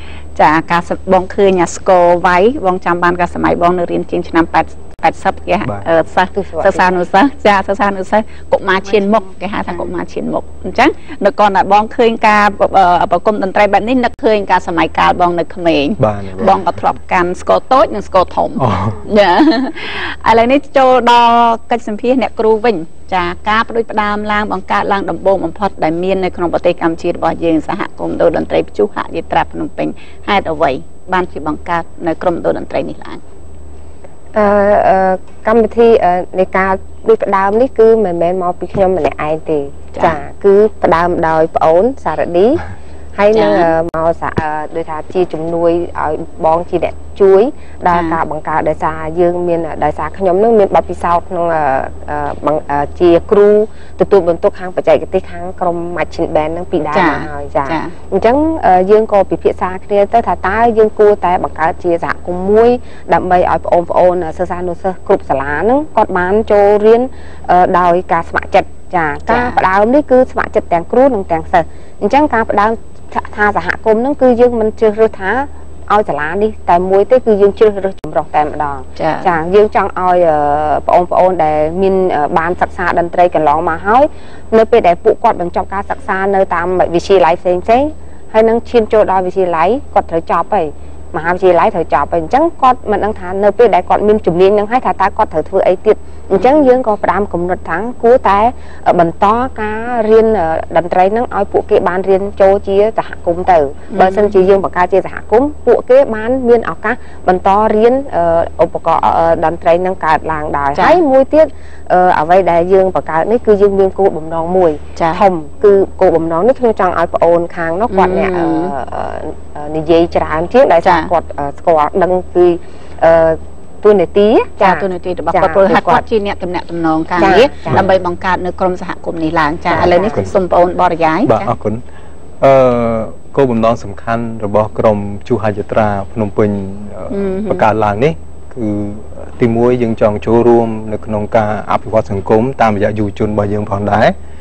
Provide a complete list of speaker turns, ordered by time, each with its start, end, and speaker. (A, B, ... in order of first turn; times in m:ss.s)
0:00.4-0:33.2 A
0:06.3-0:06.9 B
0:16.0-0:16.8 C
0:18.6-0:19.1 C
0:34.4-2:06.0 B
0:39.9-0:40.2 A
0:43.3-0:43.7 A
0:47.9-0:48.2 A
0:56.9-0:57.9 A
1:09.3-1:09.6 A
1:19.0-1:19.3 A
1:43.9-1:44.4 A
1:50.8-1:51.0 A
1:55.0-1:55.2 A
1:57.9-1:58.7 A
2:00.8-2:01.1 A
2:04.6-2:11.5 A
2:07.2-2:07.9 B
2:09.7-2:10.3 B
2:09.7-2:10.4 C
2:11.2-2:11.8 C
2:12.4-2:24.1 C
2:17.1-2:17.6 A